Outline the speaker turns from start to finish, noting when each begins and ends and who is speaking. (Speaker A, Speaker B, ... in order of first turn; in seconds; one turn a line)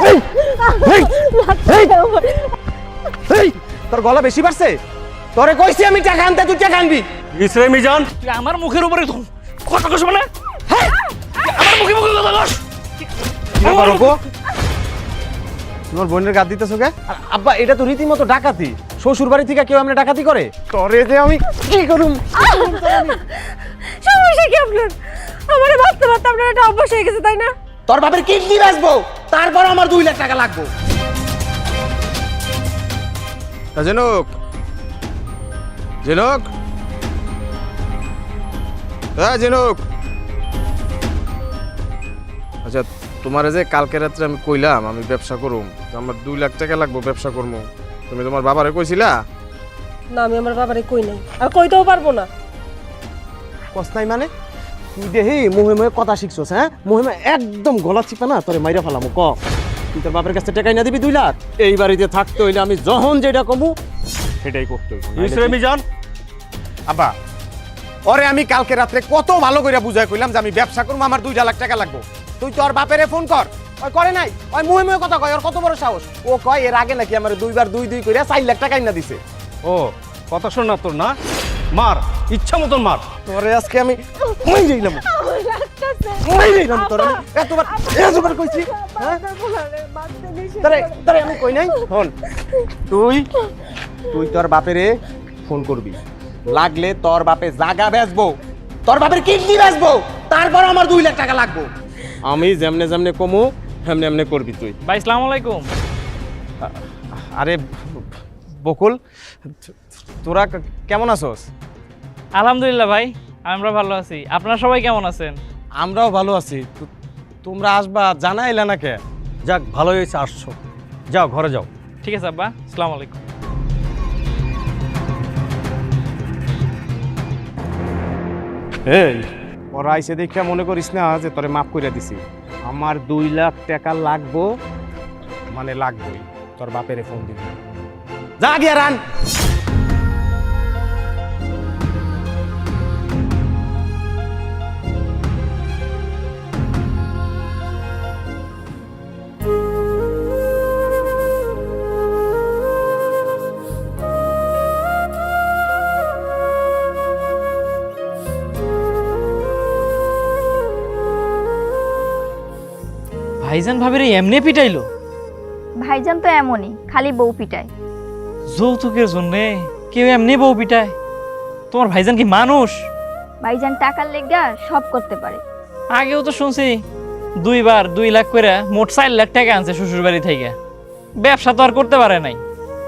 Speaker A: 0.8-2.0
Speaker B: 3.3-4.8
Speaker B: 5.3-7.0
Speaker C: 7.3-8.1
Speaker D: 8.2-12.6
Speaker B: 13.6-14.2
Speaker D: 13.6-14.1
Speaker B: 15.9-23.2
Speaker E: 22.6-23.2
Speaker E: 24.0-24.9
Speaker E: 25.5-27.5
Speaker B: 27.9-30.7
Speaker B: 33.8-34.3
Speaker B: 36.0-36.5
Speaker B: 39.2-39.8
Speaker B: 42.6-49.1
Speaker E: 50.1-52.2
Speaker B: 53.7-54.3
Speaker B: 55.0-59.4
Speaker B: 59.9-63.7
Speaker B: 64.4-65.6
Speaker C: 65.2-65.8
Speaker B: 68.1-79.2
Speaker C: 79.6-81.2
Speaker C: 81.7-83.1
Speaker B: 83.2-85.0
Speaker E: 85.0-91.8
Speaker B: 86.2-89.2
Speaker B: 90.6-92.1
Speaker B: 92.8-93.3
Speaker B: 94.1-94.9
Speaker B: 95.5-98.3
Speaker B: 98.9-101.7
Speaker B: 102.2-104.8
Speaker D: 104.9-105.6
Speaker B: 106.6-108.1
Speaker B: 108.6-109.0
Speaker B: 109.5-111.4
Speaker D: 112.4-115.4
Speaker B: 115.8-116.9
Speaker B: 117.4-119.0
Speaker C: 119.4-120.5
Speaker C: 121.1-121.7
Speaker D: 122.0-123.2
Speaker B: 128.9-134.5
Speaker B: 135.5-137.6
Speaker B: 138.4-139.0
Speaker D: 163.4-164.8
Speaker A: 165.8-167.7
Speaker D: 168.5-170.9
Speaker D: 171.7-172.8
Speaker A: 173.4-175.4
Speaker D: 176.0-176.8
Speaker D: 177.4-180.5
Speaker D: 181.2-182.4